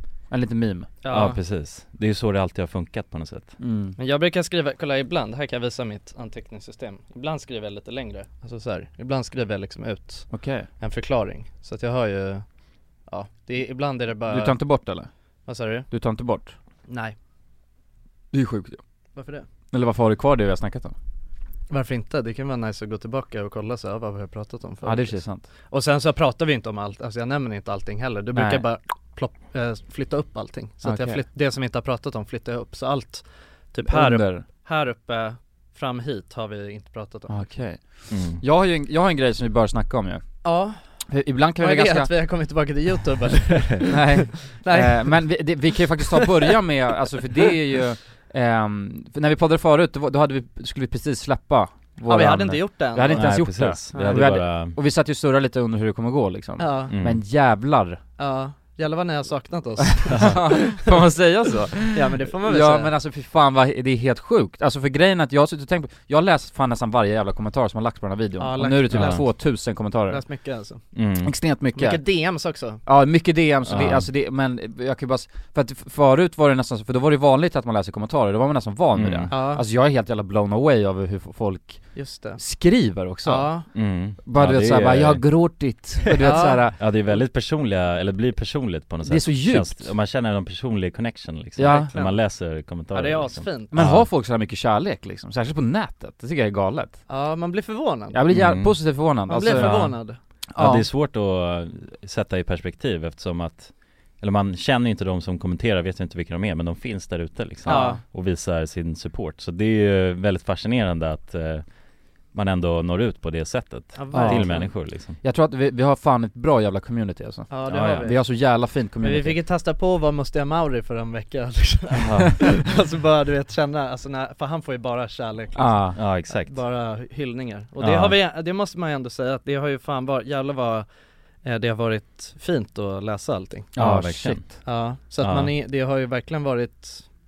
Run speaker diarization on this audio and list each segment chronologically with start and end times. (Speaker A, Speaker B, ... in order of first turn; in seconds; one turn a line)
Speaker A: 0.3-0.9
Speaker B: 1.0-1.4
Speaker C: 1.1-3.5
Speaker A: 3.6-4.0
Speaker B: 4.0-12.4
Speaker A: 10.3-10.7
Speaker B: 13.1-14.6
Speaker A: 14.3-15.1
Speaker B: 15.5-15.9
Speaker A: 15.9-16.5
Speaker B: 16.9-17.1
Speaker A: 18.3-18.8
Speaker B: 19.1-19.4
Speaker A: 19.7-20.9
Speaker B: 21.7-37.4
Speaker A: 24.8-25.4
Speaker A: 28.4-28.6
Speaker A: 30.8-31.2
Speaker A: 33.9-34.4
Speaker A: 37.3-40.2
Speaker C: 38.1-38.4
Speaker B: 40.4-40.8
Speaker A: 41.1-42.1
Speaker B: 41.6-45.2
Speaker A: 43.9-58.0
Speaker B: 52.1-53.3
Speaker C: 53.1-54.8
Speaker B: 53.9-54.2
Speaker B: 56.6-56.9
Speaker C: 56.9-57.2
Speaker B: 58.2-60.9
Speaker A: 59.8-70.2
Speaker B: 61.9-62.9
Speaker B: 68.4-69.2
Speaker C: 68.9-69.2
Speaker B: 70.1-70.8
Speaker C: 70.9-71.3
Speaker A: 71.2-72.0
Speaker B: 71.8-72.8
Speaker A: 72.8-81.8
Speaker C: 73.7-74.1
Speaker C: 79.0-79.3
Speaker B: 79.3-79.6
Speaker B: 82.0-82.4
Speaker A: 82.4-83.6
Speaker B: 83.2-83.7
Speaker C: 83.7-85.2
Speaker A: 84.2-86.8
Speaker B: 86.2-86.6
Speaker C: 86.7-94.1
Speaker A: 89.0-89.9
Speaker A: 91.6-91.9
Speaker B: 91.7-92.2
Speaker B: 92.9-93.7
Speaker A: 93.7-97.0
Speaker B: 97.1-98.2
Speaker A: 98.1-100.0
Speaker C: 98.3-99.0
Speaker B: 99.3-100.2
Speaker C: 99.5-100.0
Speaker A: 100.5-100.8
Speaker C: 100.6-111.6
Speaker A: 107.6-108.0
Speaker B: 107.6-108.0
Speaker C: 112.3-115.2
Speaker B: 113.9-114.7
Speaker A: 114.1-119.4
Speaker B: 117.5-118.2
Speaker C: 117.7-118.1
Speaker B: 119.0-130.8
Speaker C: 122.0-122.4
Speaker A: 125.5-126.0
Speaker C: 126.0-126.6
Speaker C: 127.8-128.1
Speaker B: 131.4-133.7
Speaker A: 133.8-134.4
Speaker C: 133.8-134.6
Speaker B: 134.6-137.0
Speaker C: 135.2-135.5